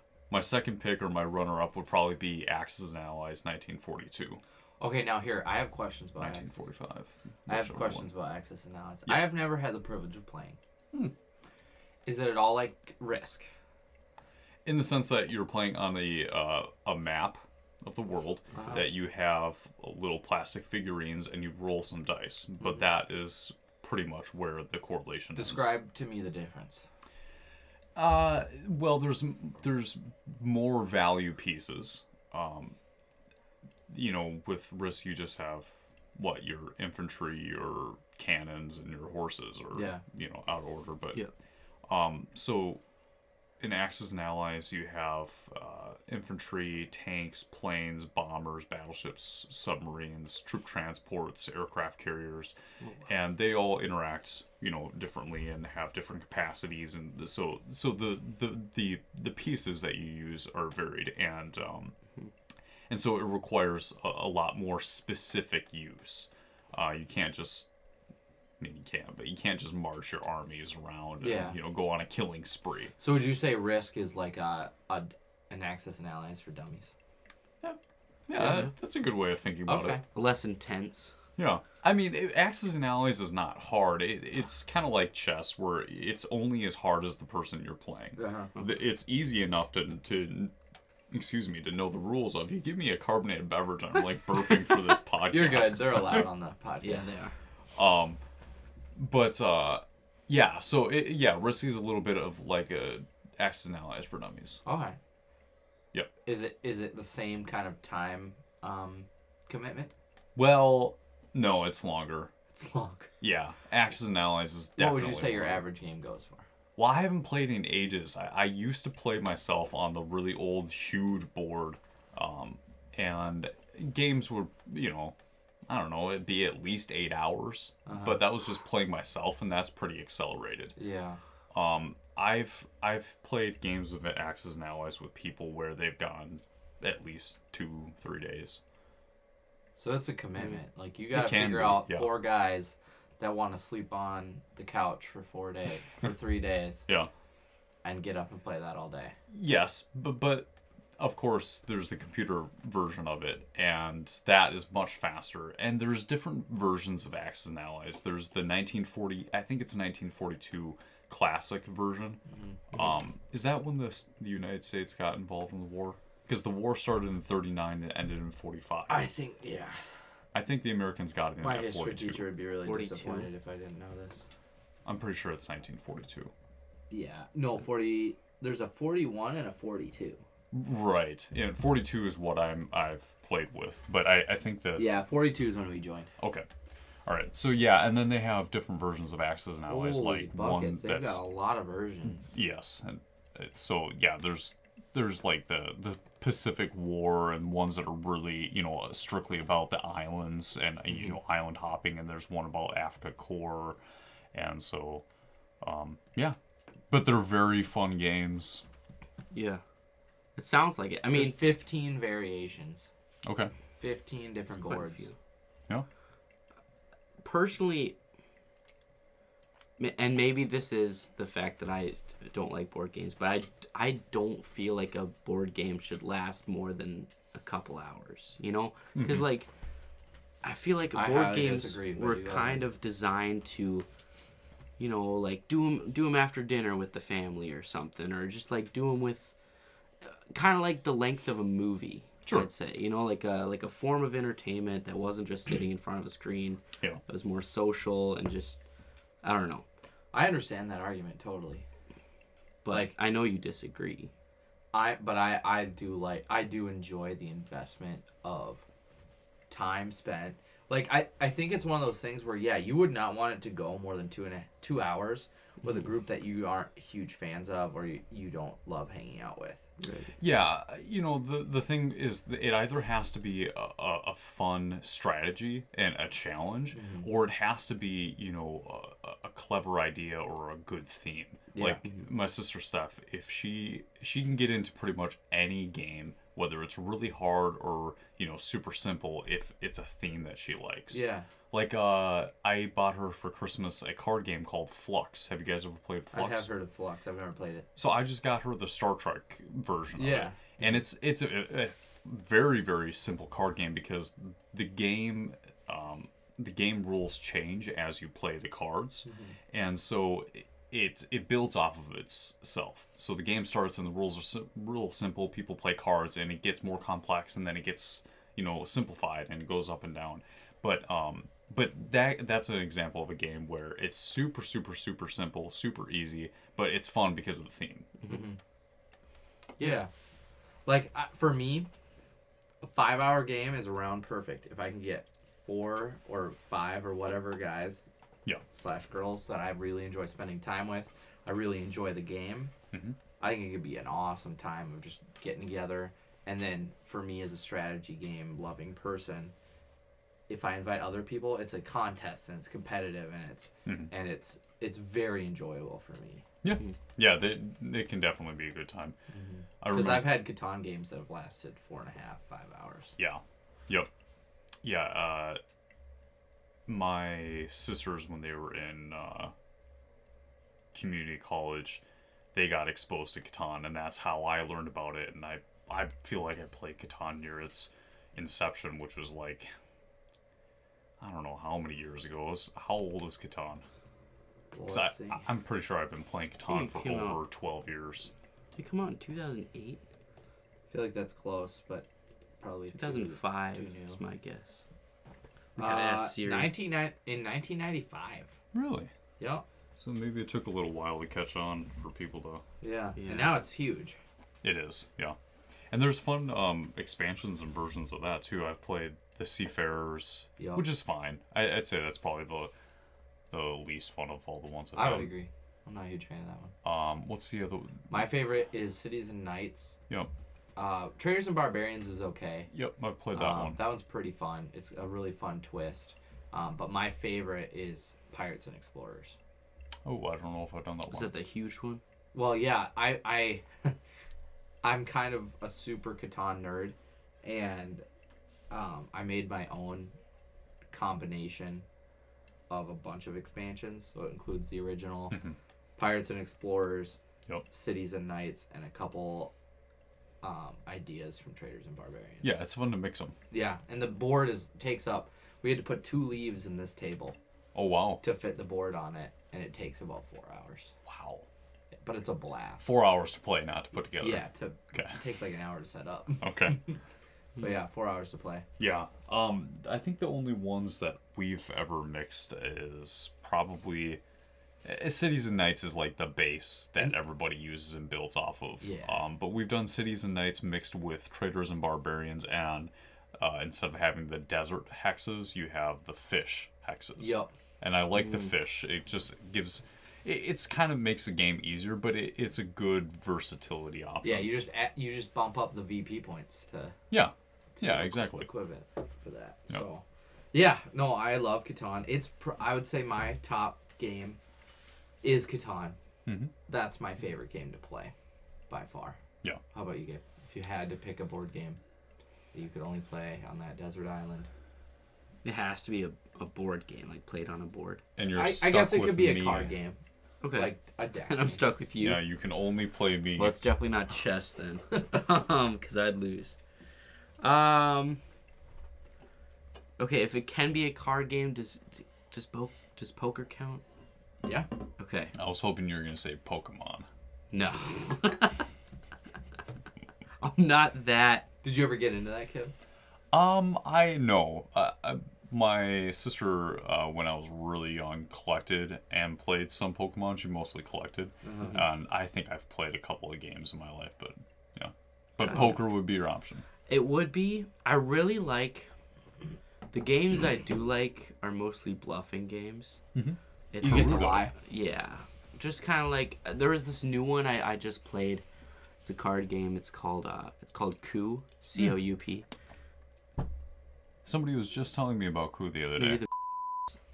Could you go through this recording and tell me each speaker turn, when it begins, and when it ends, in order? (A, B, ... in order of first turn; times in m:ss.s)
0:00.3-0:04.4 A
0:04.8-0:06.6 B
0:06.2-0:08.1 A
0:07.5-0:10.6 B
0:12.0-0:13.5 B
0:14.6-0:25.7 A
0:18.5-0:18.9 B
0:25.3-0:26.8 B
0:28.0-0:32.8 A
0:33.9-0:41.2 A
0:39.7-0:40.0 B
0:41.8-0:42.8 A
0:43.6-1:01.9 A
1:02.9-1:07.7 A
1:08.6-1:12.9 A
1:11.2-1:11.6 B
1:13.0-1:16.9 B
1:17.6-1:20.0 A
1:18.4-1:18.7 C
1:19.6-1:20.0 B
1:20.1-1:21.1 C
1:21.4-1:30.5 A
1:28.2-1:28.5 B
1:31.1-1:36.3 A
1:35.3-1:37.1 B
1:36.8-1:37.3 C
1:37.7-1:38.2 A
1:39.0-1:44.6 A
1:44.6-1:45.0 B
1:46.2-1:49.9 B
1:50.4-1:52.3 A
1:52.5-1:53.1 B
1:53.2-1:55.6 A
1:54.8-1:56.4 B
1:56.8-2:05.2 A
2:05.7-2:10.7 A
2:07.8-2:08.2 B
2:10.8-2:11.2 B
2:11.5-2:18.6 A
2:19.8-2:26.8 B
2:21.1-2:22.2 A
2:27.8-2:29.2 B
2:29.3-2:42.2 A
2:42.3-2:42.6 B
2:42.7-2:49.0 A
2:48.9-2:49.8 B
2:50.3-2:52.2 A
2:51.4-2:54.3 B
2:52.6-2:53.3 C
2:54.8-2:56.3 A
2:56.9-3:00.2 B
3:00.5-3:04.9 A
3:04.8-3:06.1 B
3:06.2-3:06.5 A
3:07.0-3:11.2 A
3:09.7-3:12.3 B
3:12.3-3:23.8 A
3:24.3-3:25.0 A
3:25.6-3:26.4 A
3:26.9-3:28.6 A
3:29.3-3:29.6 C
3:30.4-3:31.4 C
3:31.1-3:32.9 B
3:33.2-3:33.5 A
3:33.8-3:35.1 B
3:34.5-3:35.1 C
3:37.2-3:38.0 C
3:39.8-3:49.5 C
3:48.9-3:49.2 A
3:50.4-3:53.9 C
3:50.9-3:52.6 B
3:54.8-3:59.3 C
4:00.0-4:08.6 C
4:09.2-4:09.6 C
4:10.1-4:11.6 B
4:12.6-4:14.1 C
4:12.7-4:12.9 B
4:14.7-4:18.6 B
4:19.5-4:29.7 B
4:29.8-4:30.1 C
4:30.2-4:56.5 A
4:36.7-4:37.1 B
4:41.5-4:41.8 B
4:50.9-4:51.3 B
4:56.1-4:57.7 B
4:57.8-5:27.9 A
5:00.0-5:00.8 B
5:09.0-5:09.4 B
5:28.0-5:28.4 B
5:29.6-5:29.8 C
5:29.6-5:29.9 B
5:30.6-5:31.7 B
5:32.6-5:37.8 B
5:38.5-5:42.5 B
5:42.7-5:43.0 A
5:43.2-5:49.3 B
5:50.3-5:56.2 B
5:53.6-5:53.9 A
5:56.4-5:58.9 A
5:59.1-6:02.9 B
5:59.6-6:00.2 A
6:03.0-6:03.9 A
6:04.6-6:05.4 A
6:06.7-6:09.3 A
6:10.7-6:11.8 A
6:12.3-6:19.5 A
6:21.0-6:23.6 A
6:24.5-6:25.2 B
6:24.7-6:28.1 A
6:26.5-6:27.2 C
6:28.5-6:29.8 C
6:30.7-6:31.9 B
6:32.4-6:34.0 B
6:32.7-6:34.6 C
6:35.6-6:36.5 C
6:35.6-6:38.3 B
6:38.5-6:38.9 A
6:39.2-6:39.4 B
6:39.8-6:42.4 A
6:42.6-6:44.0 B
6:43.0-6:43.4 C
6:44.4-6:45.2 A
6:45.7-6:52.5 A
6:50.4-6:50.6 B
6:53.3-6:55.1 A
6:54.7-6:56.5 B
6:56.6-6:58.0 A
6:57.9-6:59.8 B
7:00.6-7:02.5 B
7:02.5-7:03.6 A
7:03.1-7:09.2 B
7:09.8-7:11.1 A
7:10.9-7:11.8 C
7:12.1-7:13.8 B
7:14.6-7:17.8 B
7:18.5-7:19.9 B
7:20.7-7:21.6 B
7:22.5-7:25.2 B
7:25.1-7:25.4 A
7:25.8-7:27.0 B
7:27.5-7:29.3 B
7:30.2-7:32.3 B
7:32.2-7:33.1 A
7:33.3-7:37.2 B
7:37.5-7:38.0 A
7:38.0-7:40.7 B
7:40.8-7:41.2 A
7:41.8-7:42.7 B
7:42.6-7:45.0 A
7:44.0-7:46.8 B
7:46.2-7:46.6 A
7:47.4-7:48.4 B
7:48.6-7:54.0 A
7:54.6-8:14.4 A
7:58.6-7:59.0 B
8:07.0-8:07.3 B
8:14.0-8:16.7 B
8:16.9-8:18.3 A
8:17.6-8:24.2 B
8:25.0-8:25.8 B
8:26.0-8:26.3 A
8:26.5-8:27.9 B
8:28.5-8:29.0 B
8:29.5-8:31.6 B
8:32.3-8:34.3 B
8:35.2-8:37.8 C
8:38.0-8:39.5 A
8:38.1-8:39.8 B
8:40.2-8:40.5 C
8:40.3-8:41.4 B
8:41.1-8:42.0 C
8:41.8-8:43.4 A
8:43.2-8:46.4 C
8:47.2-8:48.0 C
8:49.8-8:53.6 C
8:54.8-8:55.1 C
8:55.1-8:56.9 A
8:57.3-8:58.5 C
9:00.2-9:01.2 C
9:01.4-9:02.5 B
9:03.1-9:16.4 A
9:11.2-9:11.6 B
9:15.2-9:15.7 C
9:16.7-9:18.7 C
9:19.7-9:22.8 C
9:22.9-9:24.3 A
9:23.5-9:28.2 C
9:23.6-9:24.3 B
9:28.8-9:32.2 C
9:34.0-9:36.1 A